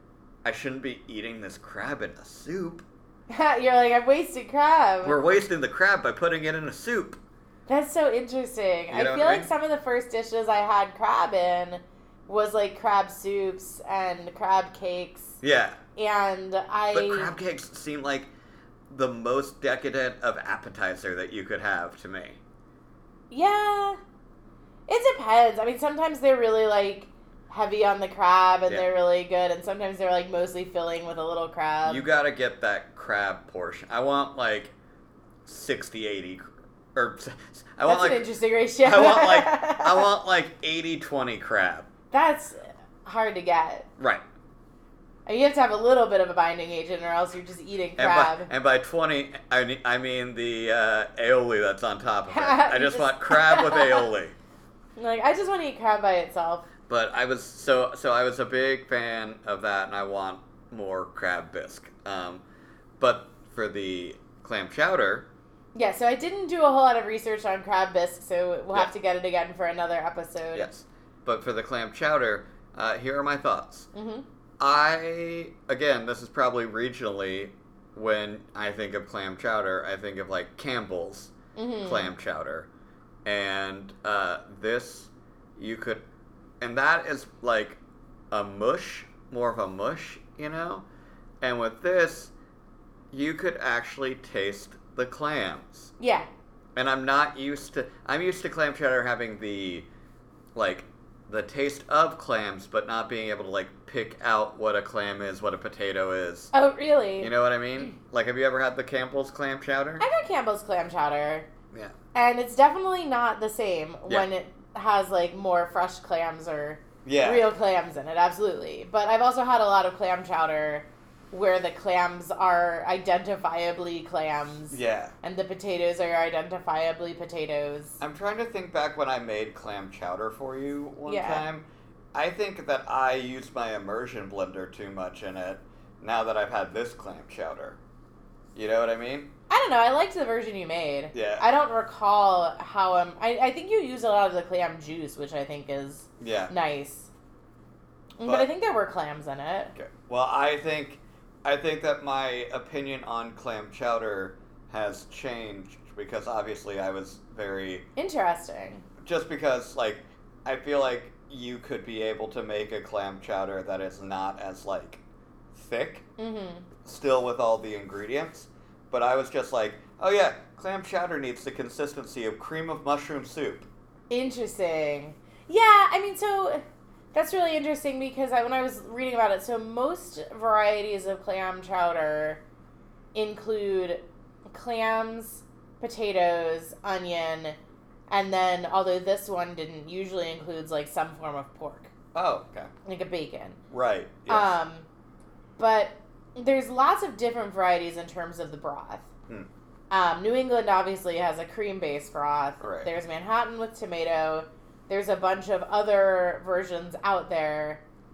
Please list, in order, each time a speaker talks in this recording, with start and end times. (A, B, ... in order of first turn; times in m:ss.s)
0:00.4-0:02.8 A
0:03.3-0:05.2 B
0:05.0-0:07.2 A
0:07.7-0:15.4 B
0:08.9-0:09.5 A
0:15.4-0:15.8 A
0:16.0-0:17.3 B
0:16.9-0:18.3 A
0:18.9-0:22.4 A
0:23.3-0:24.0 B
0:24.9-0:32.0 B
0:31.9-0:34.7 A
0:35.5-0:38.3 A
0:37.8-0:40.1 B
0:38.8-0:41.9 A
0:42.1-0:43.9 B
0:44.0-0:44.2 A
0:45.3-0:48.5 B
0:48.0-0:54.4 A
0:52.3-0:54.1 B
0:55.0-0:56.7 B
0:56.9-1:02.4 A
1:03.0-1:05.3 A
1:05.7-1:10.7 B
1:10.5-1:13.9 A
1:13.9-1:14.2 B
1:14.6-1:21.3 A
1:21.6-1:22.1 B
1:21.8-1:22.7 A
1:23.2-1:26.0 A
1:26.6-1:27.8 A
1:28.3-1:30.8 A
1:31.4-1:32.3 A
1:33.1-1:35.9 A
1:36.0-1:36.3 B
1:36.8-1:39.9 A
1:40.6-1:46.5 A
1:46.5-1:47.9 B
1:47.2-1:50.1 A
1:50.0-1:51.5 B
1:52.1-2:08.0 B
1:57.0-1:57.5 A
2:04.7-2:05.1 A
2:08.0-2:17.8 A
2:11.1-2:11.4 B
2:18.6-2:19.3 A
2:19.5-2:27.1 B
2:21.1-2:21.4 A
2:26.2-2:26.5 A
2:28.2-2:29.7 B
2:29.8-2:37.9 A
2:38.0-2:38.8 B
2:39.0-2:45.0 A
2:45.5-2:46.1 A
2:46.2-2:46.7 B
2:46.8-2:53.7 A
2:54.1-2:56.6 B
2:57.1-3:02.4 B
3:03.2-3:07.6 B
3:08.1-3:11.9 B
3:12.1-3:12.7 A
3:12.8-3:13.6 B
3:13.7-3:14.6 A
3:14.3-3:14.9 B
3:15.6-3:19.1 B
3:19.9-3:27.8 B
3:22.6-3:22.9 A